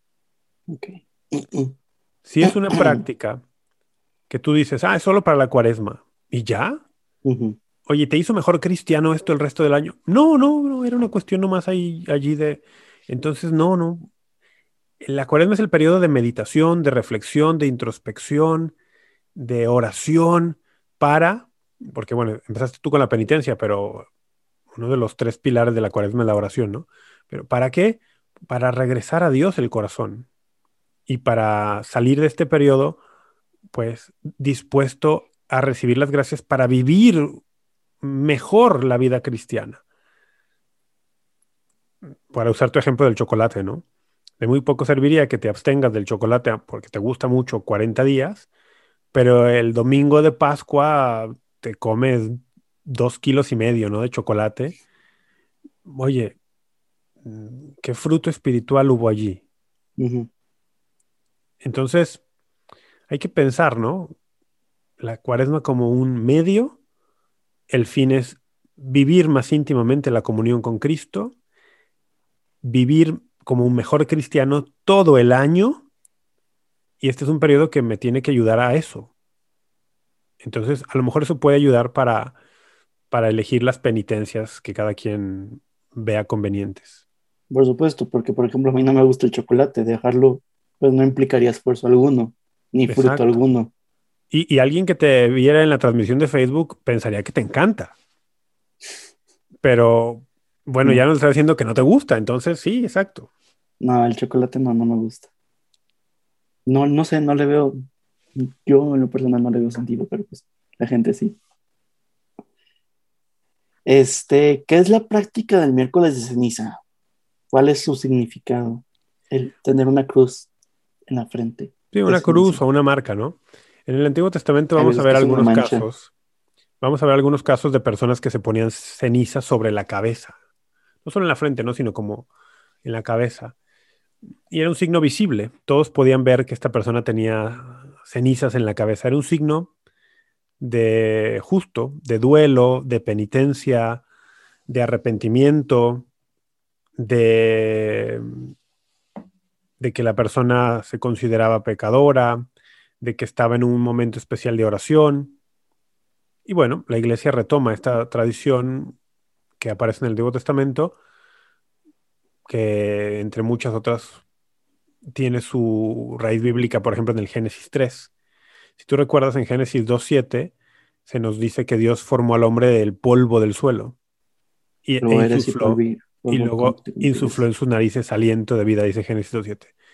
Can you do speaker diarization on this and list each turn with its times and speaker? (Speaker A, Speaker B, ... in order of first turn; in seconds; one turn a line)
Speaker A: 0.7-1.7
Speaker B: 2.2-3.4
Speaker A: 2.4-3.0
Speaker B: 4.3-6.8
Speaker A: 7.2-7.6
Speaker B: 7.8-14.1
Speaker B: 15.0-18.7
Speaker B: 19.3-24.1
Speaker B: 24.7-30.3
Speaker B: 31.1-33.0
Speaker B: 33.7-37.4
Speaker B: 38.0-39.8
Speaker B: 42.3-43.8
Speaker B: 44.4-48.5
Speaker B: 49.1-54.8
Speaker B: 55.9-56.4
Speaker B: 57.2-59.4
Speaker A: 60.0-60.3
Speaker B: 61.6-62.2
Speaker B: 63.1-64.1
Speaker B: 65.0-66.8
Speaker B: 67.7-71.3
Speaker B: 72.6-75.8
Speaker B: 77.0-79.1
Speaker B: 80.4-82.3
Speaker B: 83.1-87.0
Speaker A: 87.5-93.7
Speaker B: 92.9-93.3
Speaker B: 94.3-97.9
Speaker B: 99.6-103.3
Speaker A: 103.8-105.3
Speaker A: 106.7-107.8
Speaker A: 108.3-111.4
Speaker A: 113.8-116.8
Speaker A: 117.5-120.5
Speaker A: 121.1-122.6
Speaker B: 121.9-126.1
Speaker A: 124.8-125.8
Speaker B: 126.8-130.3
Speaker B: 131.0-132.3
Speaker B: 132.8-133.5
Speaker B: 134.5-139.7
Speaker B: 140.6-144.0
Speaker B: 144.7-146.1
Speaker B: 147.0-148.5
Speaker B: 149.8-152.4
Speaker B: 153.0-155.4
Speaker B: 156.4-159.0
Speaker B: 159.6-160.9
Speaker B: 162.4-164.2
Speaker B: 165.0-168.1
Speaker B: 168.8-170.5
Speaker B: 171.1-173.9
Speaker B: 174.8-179.7
Speaker A: 175.0-177.4